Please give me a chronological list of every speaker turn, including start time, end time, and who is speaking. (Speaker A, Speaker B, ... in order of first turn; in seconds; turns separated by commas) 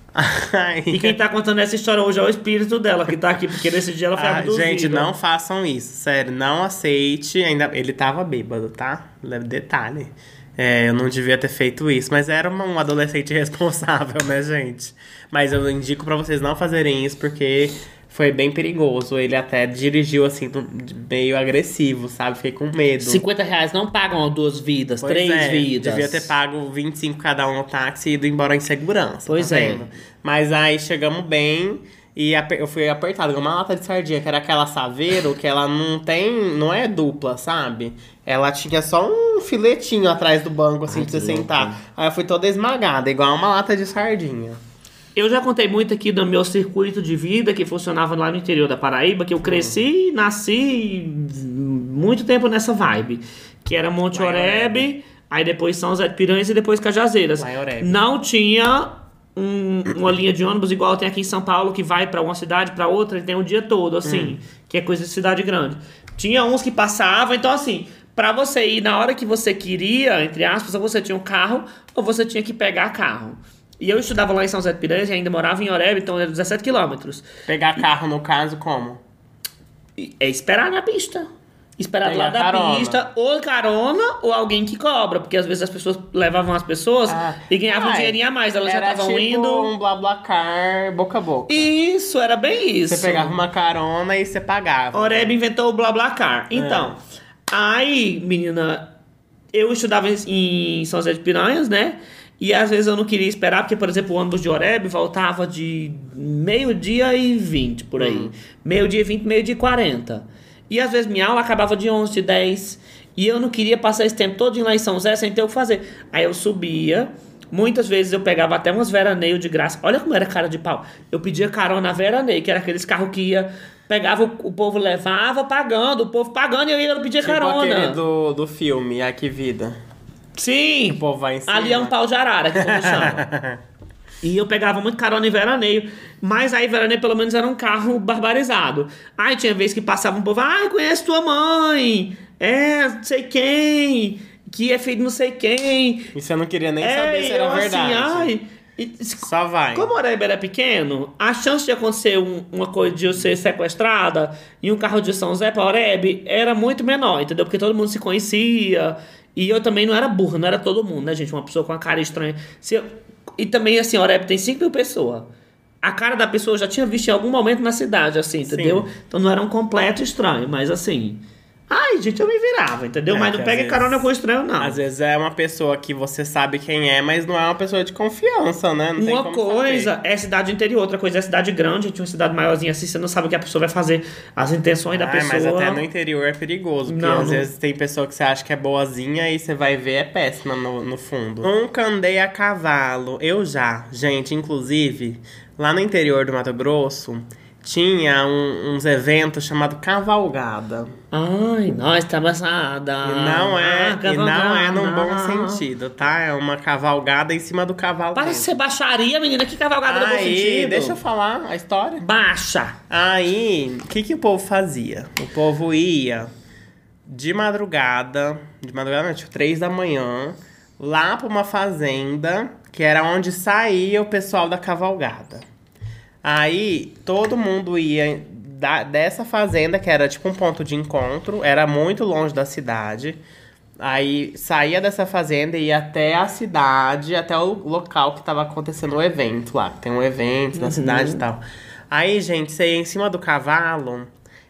Speaker A: 0.1-1.2, Speaker B: 0.9-5.1, Speaker A: 4.2-23.2, Speaker B: 23.0-26.3, Speaker A: 25.0-44.6, Speaker B: 29.3-29.9, Speaker B: 40.9-41.8, Speaker B: 45.2-77.3, Speaker A: 49.4-49.8, Speaker A: 54.1-54.9, Speaker A: 57.4-58.0, Speaker A: 64.0-64.4, Speaker A: 77.5-79.0, Speaker B: 80.0-89.7, Speaker A: 82.0-83.0, Speaker A: 87.1-91.7, Speaker B: 91.5-93.4, Speaker A: 92.9-95.4, Speaker B: 94.9-98.9, Speaker A: 96.5-97.0, Speaker B: 99.5-128.0, Speaker A: 108.0-108.3, Speaker A: 127.2-129.8, Speaker B: 130.4-133.3, Speaker A: 130.9-131.9, Speaker A: 132.6-133.6, Speaker B: 134.2-146.1, Speaker A: 146.1-148.3, Speaker B: 146.8-165.3, Speaker A: 149.2-149.9, Speaker B: 165.8-174.8, Speaker A: 168.5-168.9, Speaker A: 173.1-174.1, Speaker A: 174.6-179.9, Speaker B: 179.0-185.8, Speaker A: 184.9-200.9, Speaker B: 186.9-187.5, Speaker B: 201.1-205.6, Speaker A: 203.0-208.6, Speaker B: 208.2-211.0, Speaker A: 209.8-212.1, Speaker B: 212.0-212.8, Speaker A: 212.9-216.3, Speaker A: 217.1-225.5, Speaker A: 226.2-233.2, Speaker A: 233.8-244.1, Speaker B: 240.6-241.2